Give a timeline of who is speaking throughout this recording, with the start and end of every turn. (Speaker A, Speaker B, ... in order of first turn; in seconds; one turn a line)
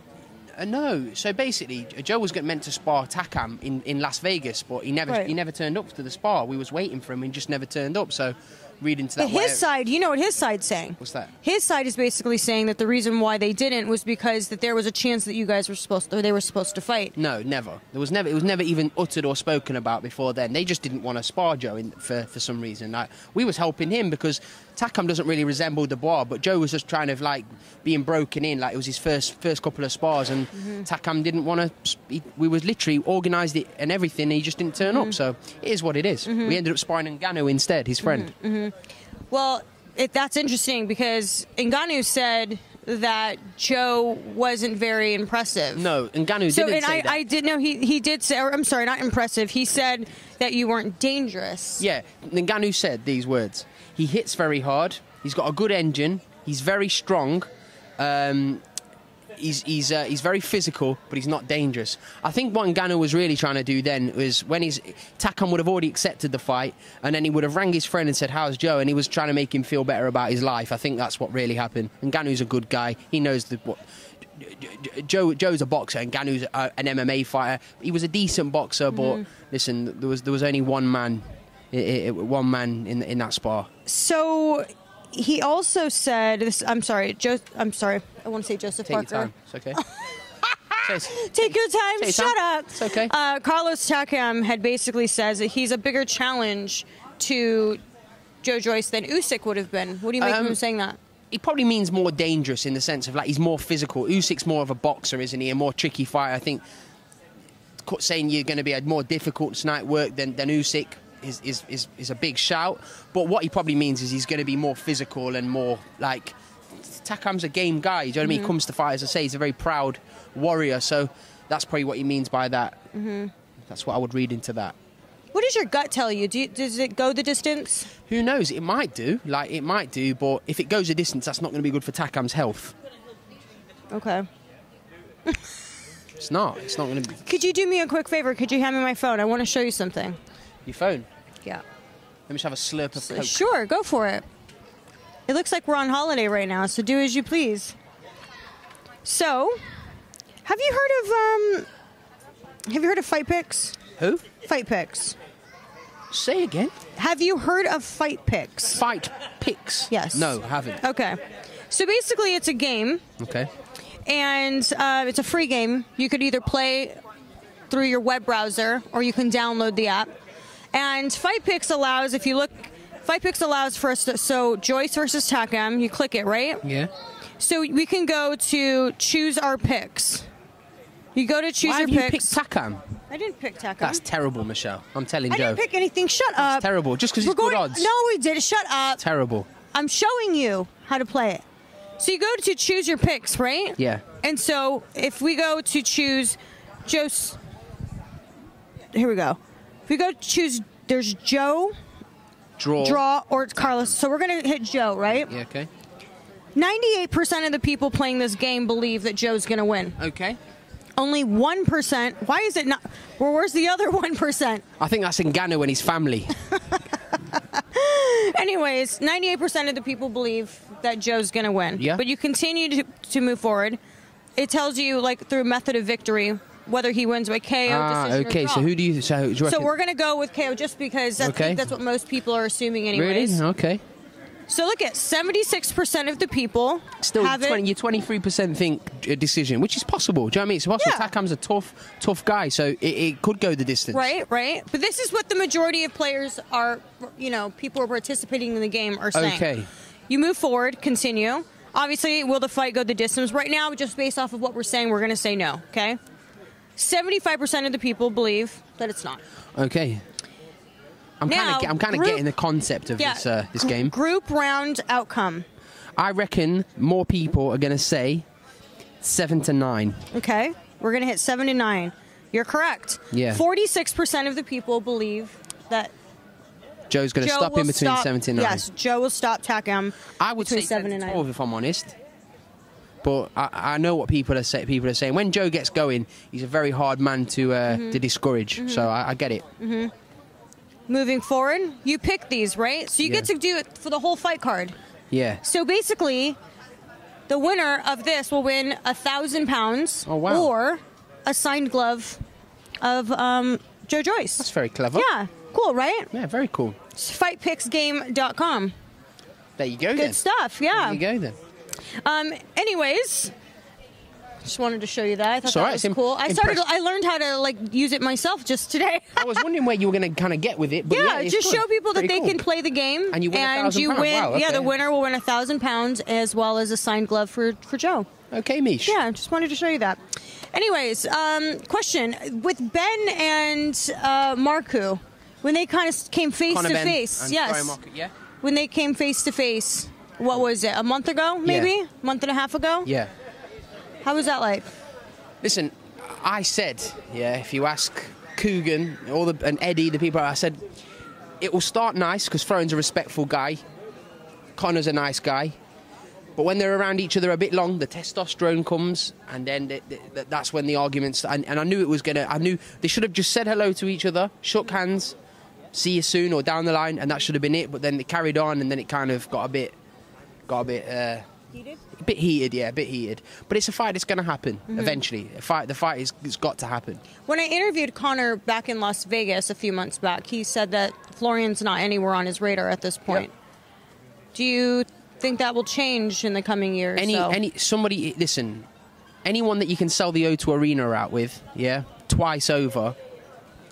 Speaker A: 0.6-9.7
Speaker B: 5.1-5.3
Speaker B: 9.2-17.1
Speaker A: 11.0-11.3
Speaker A: 17.1-38.3
Speaker B: 34.9-35.1
Speaker B: 36.3-36.6
Speaker B: 38.0-38.8
Speaker B: 39.3-45.9
Speaker A: 45.7-47.2
Speaker B: 46.5-51.9
Speaker A: 51.8-58.6
Speaker A: 59.4-73.8
Speaker A: 74.4-83.7
Speaker B: 78.9-79.2
Speaker B: 83.9-89.3
Speaker A: 88.8-89.8
Speaker B: 90.5-97.8
Speaker A: 90.8-93.1
Speaker B: 98.4-101.0
Speaker A: 100.2-100.6
Speaker A: 101.3-106.6
Speaker A: 107.8-122.8
Speaker B: 118.2-118.5
Speaker B: 122.9-123.3
Speaker A: 123.7-124.8
Speaker B: 125.3-127.9
Speaker A: 128.1-132.8
Speaker B: 133.9-134.3
Speaker A: 136.2-137.2
Speaker B: 137.2-140.2
Speaker A: 140.7-141.1
Speaker A: 142.3-143.4
Speaker B: 143.0-144.2
Speaker B: 145.3-147.8
Speaker B: 149.0-149.6
Speaker B: 150.4-151.7
Speaker B: 152.7-153.8
Speaker A: 154.0-154.2
Speaker B: 154.4-155.2
Speaker A: 156.1-156.7
Speaker B: 157.0-158.8
Speaker A: 158.7-160.8
Speaker B: 159.9-163.0
Speaker A: 163.2-163.5
Speaker B: 164.1-167.0
Speaker B: 167.7-170.1
Speaker B: 170.7-176.6
Speaker A: 176.6-176.9
Speaker B: 177.4-180.3
Speaker B: 181.2-182.4
Speaker A: 181.6-182.8
Speaker B: 183.1-184.0
Speaker A: 183.8-185.6
Speaker B: 185.3-189.0
Speaker A: 186.4-187.9
Speaker A: 189.0-189.5
Speaker B: 189.7-191.4
Speaker B: 192.0-197.4
Speaker A: 193.8-194.0
Speaker B: 198.9-201.7
Speaker A: 202.6-203.0
Speaker B: 202.8-205.3
Speaker A: 205.1-205.7
Speaker B: 206.6-210.0
Speaker A: 210.0-210.4
Speaker B: 211.0-214.6
Speaker A: 214.8-216.4
Speaker B: 217.6-223.8
Speaker A: 221.8-222.0
Speaker B: 224.4-228.7
Speaker A: 227.7-229.7
Speaker B: 229.4-233.4
Speaker A: 231.2-231.7
Speaker A: 232.9-233.8
Speaker B: 234.5-237.6
Speaker A: 237.0-244.2
Speaker B: 240.8-241.1
Speaker B: 243.9-249.5
Speaker A: 249.1-249.7
Speaker B: 250.1-256.0
Speaker B: 256.8-259.2
Speaker A: 259.6-260.0
Speaker A: 261.2-263.9
Speaker B: 261.3-262.2
Speaker B: 263.0-265.4
Speaker A: 266.0-268.2
Speaker A: 269.0-270.1
Speaker B: 270.1-275.9
Speaker A: 273.1-273.4
Speaker A: 276.9-278.7
Speaker B: 277.2-281.3
Speaker A: 280.2-282.0
Speaker A: 283.0-289.4
Speaker B: 287.7-288.0
Speaker B: 288.6-288.9
Speaker B: 289.6-289.9
Speaker B: 290.9-294.8
Speaker A: 295.1-295.4
Speaker B: 295.4-296.4
Speaker B: 297.3-302.2
Speaker A: 300.1-300.5
Speaker B: 302.8-306.1
Speaker A: 304.4-305.1
Speaker A: 306.1-306.8
Speaker B: 306.9-308.7
Speaker A: 309.6-311.4
Speaker B: 309.9-311.0
Speaker B: 312.0-313.3
Speaker B: 314.4-319.3
Speaker A: 315.4-316.6
Speaker A: 319.2-322.4
Speaker B: 320.9-328.1
Speaker A: 323.1-324.7
Speaker A: 328.3-329.0
Speaker B: 328.9-330.0
Speaker B: 330.5-337.8
Speaker A: 336.5-338.1
Speaker B: 338.4-342.9
Speaker A: 341.4-341.7
Speaker A: 342.9-343.1
Speaker B: 344.0-344.7
Speaker A: 345.4-350.6
Speaker A: 351.4-353.6
Speaker A: 354.6-355.6
Speaker A: 356.4-365.2
Speaker A: 365.7-369.8
Speaker A: 370.5-371.2
Speaker B: 371.5-371.8
Speaker A: 372.0-377.0
Speaker B: 374.7-375.0
Speaker B: 377.2-383.3
Speaker B: 384.3-387.4
Speaker A: 387.0-388.7
Speaker A: 389.2-393.0